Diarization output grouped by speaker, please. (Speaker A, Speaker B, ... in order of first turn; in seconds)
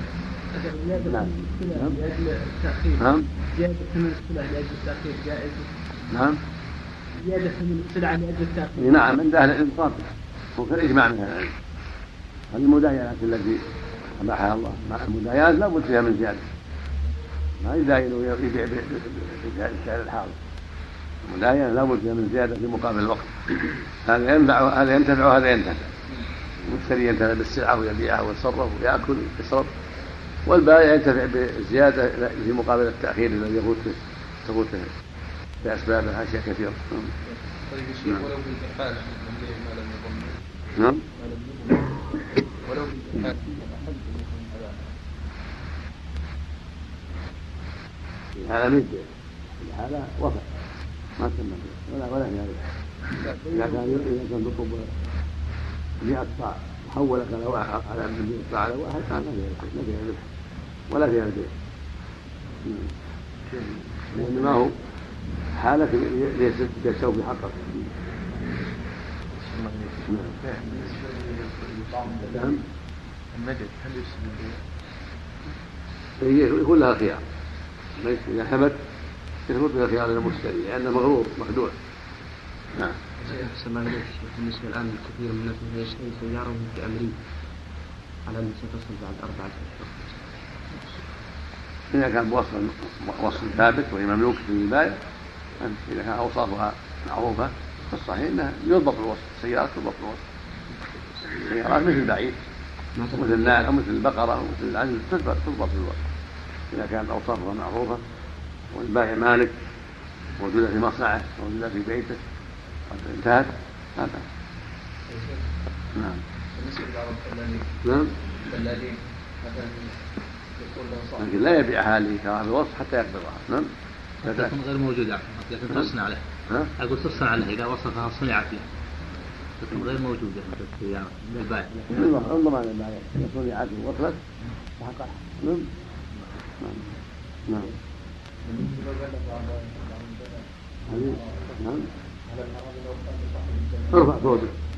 Speaker A: 0.6-3.0, 3.5-5.7, 7.2-8.8, 83.2-87.2, 88.3-90.2, 103.0-103.6
Speaker B: 1.1-1.9, 3.0-3.3, 6.1-6.4, 8.8-10.1, 10.6-11.5, 12.5-13.6, 14.2-16.4, 17.6-20.4, 21.2-25.9, 26.7-29.7, 30.4-34.9, 35.6-37.1, 40.8-41.0, 48.4-49.1, 49.6-50.5, 51.2-52.6, 53.5-54.9, 56.0-60.2, 60.9-61.5, 64.1-64.7, 65.6-67.9, 72.3-72.6, 76.2-77.2, 78.0-78.8, 79.5-81.7, 91.9-95.0, 95.6-100.2, 101.4-102.3, 103.1-106.0, 106.7-108.0, 108.7-109.5, 110.4-112.2, 112.9-114.2, 117.8-118.1, 121.2-123.7, 124.2-124.5, 131.9-134.2, 135.4-135.7, 140.9-141.9, 143.9-144.5
Speaker C: 37.3-40.4, 41.1-42.0, 42.6-44.7, 53.2-53.9, 63.5-64.6, 69.4-72.6, 73.3-74.6, 116.6-117.6, 118.5-119.9, 120.6-121.3, 138.4-141.5, 142.3-144.3
Speaker D: 124.2-126.2, 126.8-128.7, 129.6-132.1